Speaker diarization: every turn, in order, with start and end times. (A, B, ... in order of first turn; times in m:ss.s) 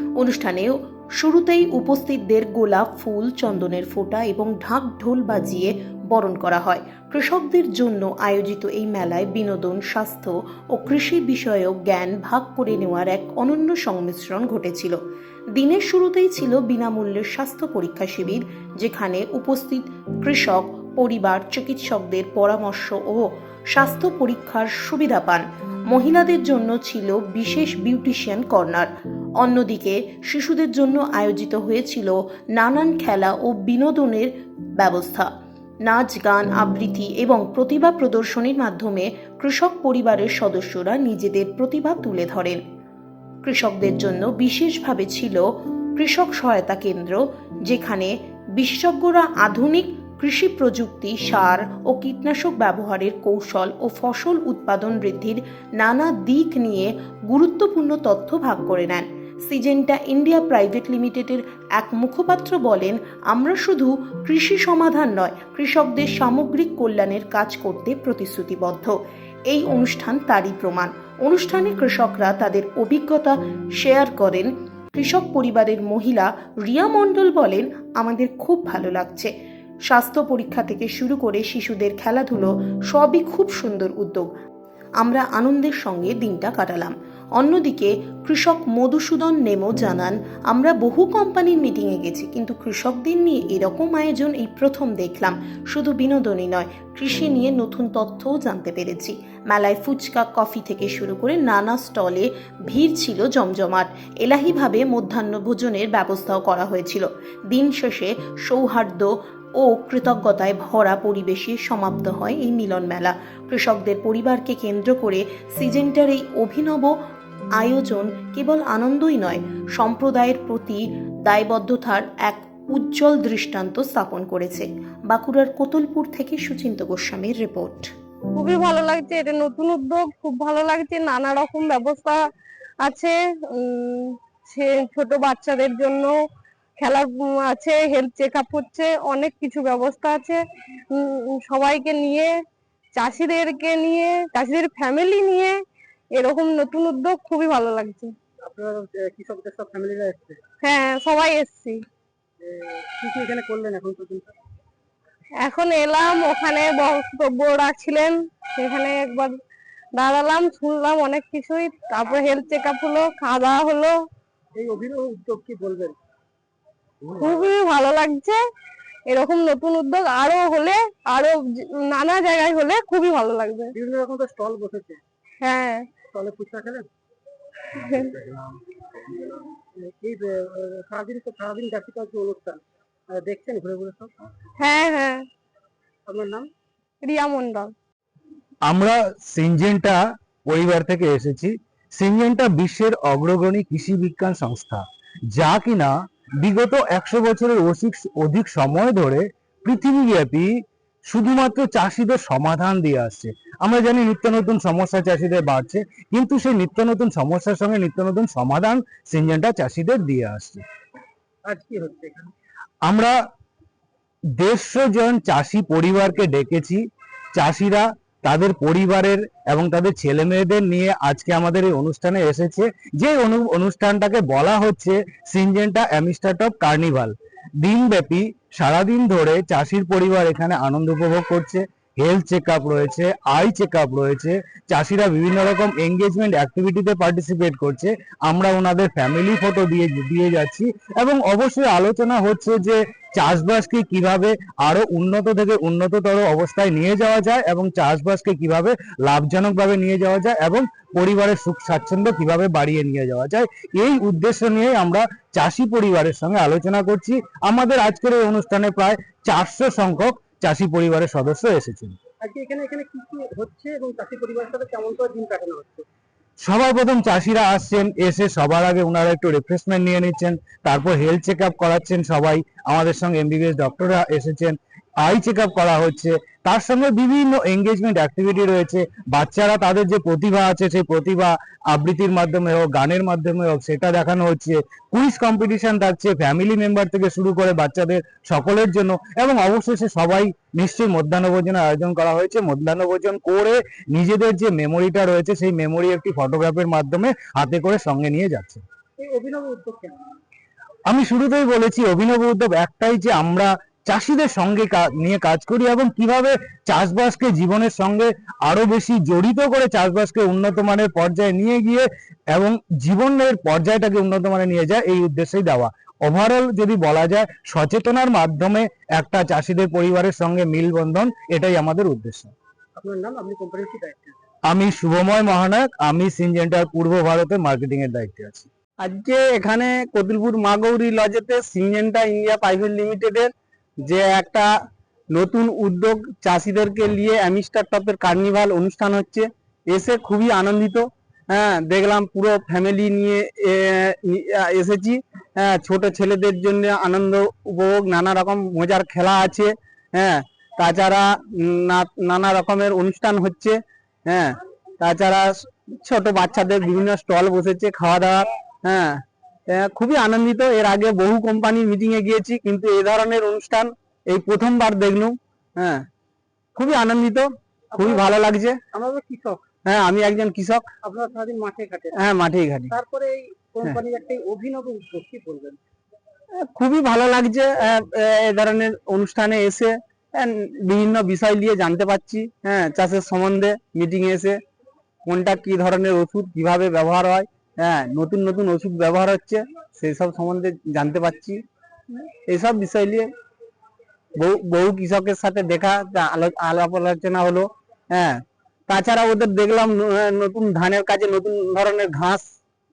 0:00.2-0:15.0 A
0:15.5-0:28.9 A
0:29.4-0:35.3 A
0:35.8-0:42.6 A
0:43.4-0:45.4 A
0:46.0-1:09.0 A
1:09.5-1:19.3 A
1:19.9-1:24.3 A
1:25.0-1:56.9 A
1:57.6-2:07.9 A
2:08.4-2:12.2 B
2:12.8-2:16.1 B
2:16.8-2:20.4 B
2:20.9-2:22.3 B
2:23.0-2:25.5 B
2:26.2-2:28.1 B
2:28.4-2:30.4 C
2:30.6-2:31.8 B
2:32.4-2:34.3 C
2:35.4-2:39.3 B
2:40.0-2:44.0 B
2:44.6-2:45.9 C
2:47.2-2:47.5 C
2:47.2-2:48.4 B
2:49.1-2:53.7 B
2:53.8-2:55.0 C
2:55.4-2:56.0 B
2:56.0-2:56.9 C
2:57.7-2:58.2 B
2:59.8-3:04.1 C
3:04.6-3:05.2 B
3:06.1-3:06.5 C
3:07.0-3:07.7 B
3:08.6-3:20.5 D
3:21.1-3:30.6 D
3:31.4-3:32.3 C
3:32.8-3:33.1 D
3:34.4-3:36.8 D
3:37.3-4:22.0 D
4:22.2-4:25.8 C
4:26.4-4:58.6 D
4:59.0-5:00.0 C
5:00.9-5:22.3 D
5:22.8-5:24.2 C
5:24.5-5:28.5 D
5:28.8-5:33.3 E
5:33.8-5:34.5 E
5:35.1-5:53.6 E
5:54.1-5:58.9 E
5:59.5-6:05.8 E
6:06.6-6:08.6 E
6:07.7-6:09.5 C
6:09.6-6:10.7 E
6:10.8-6:12.0 C
6:12.0-6:12.7 E
6:12.7-6:15.6 C
6:16.4-6:24.4 E
6:25.0-6:31.4 E
6:32.3-6:33.1 E
6:34.2-6:42.2 E